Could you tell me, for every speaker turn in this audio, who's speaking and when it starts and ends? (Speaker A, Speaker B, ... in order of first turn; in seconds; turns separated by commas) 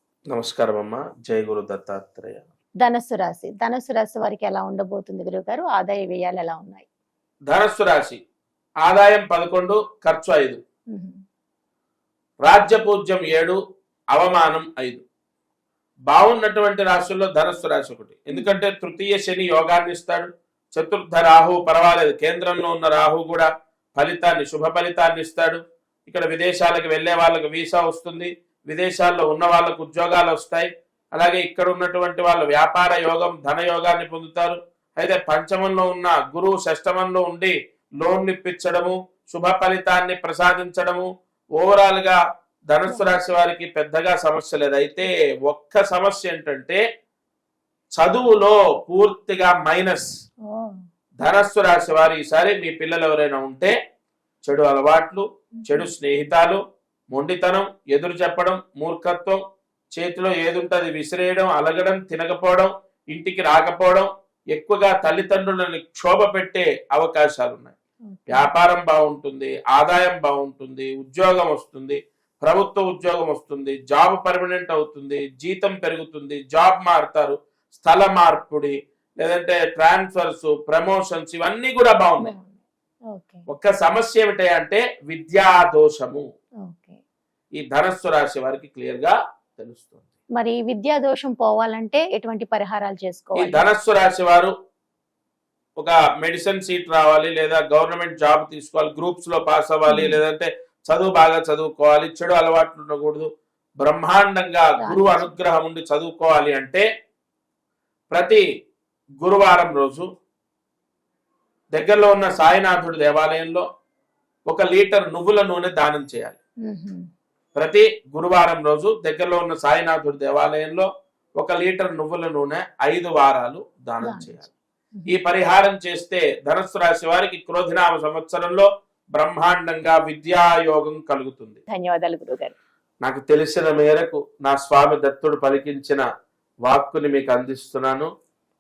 Speaker A: 0.3-2.5, Speaker B: 2.8-6.9, Speaker A: 7.5-8.2, Speaker A: 8.8-10.6, Speaker B: 10.9-11.2, Speaker A: 12.4-13.6, Speaker A: 14.1-15.0, Speaker A: 16.1-41.1, Speaker B: 18.3-18.6, Speaker A: 41.6-42.2, Speaker A: 42.7-46.8, Speaker B: 42.9-43.1, Speaker A: 48.0-50.1, Speaker B: 50.5-50.8, Speaker A: 51.2-53.7, Speaker A: 54.5-56.6, Speaker B: 55.6-55.9, Speaker A: 57.1-59.4, Speaker A: 59.9-67.8, Speaker B: 68.1-68.5, Speaker A: 68.3-82.3, Speaker B: 82.2-82.6, Speaker B: 83.1-83.4, Speaker A: 83.5-86.2, Speaker B: 86.7-87.0, Speaker A: 87.6-90.1, Speaker B: 90.4-93.6, Speaker A: 93.3-94.5, Speaker A: 95.8-103.3, Speaker B: 99.9-100.2, Speaker A: 103.8-106.9, Speaker B: 104.8-105.4, Speaker A: 108.1-108.4, Speaker A: 109.2-110.1, Speaker A: 111.7-113.7, Speaker A: 114.5-116.4, Speaker B: 116.7-117.0, Speaker A: 117.6-124.5, Speaker B: 124.0-124.3, Speaker A: 125.1-131.6, Speaker B: 131.7-132.6, Speaker A: 133.0-136.1, Speaker A: 136.7-138.1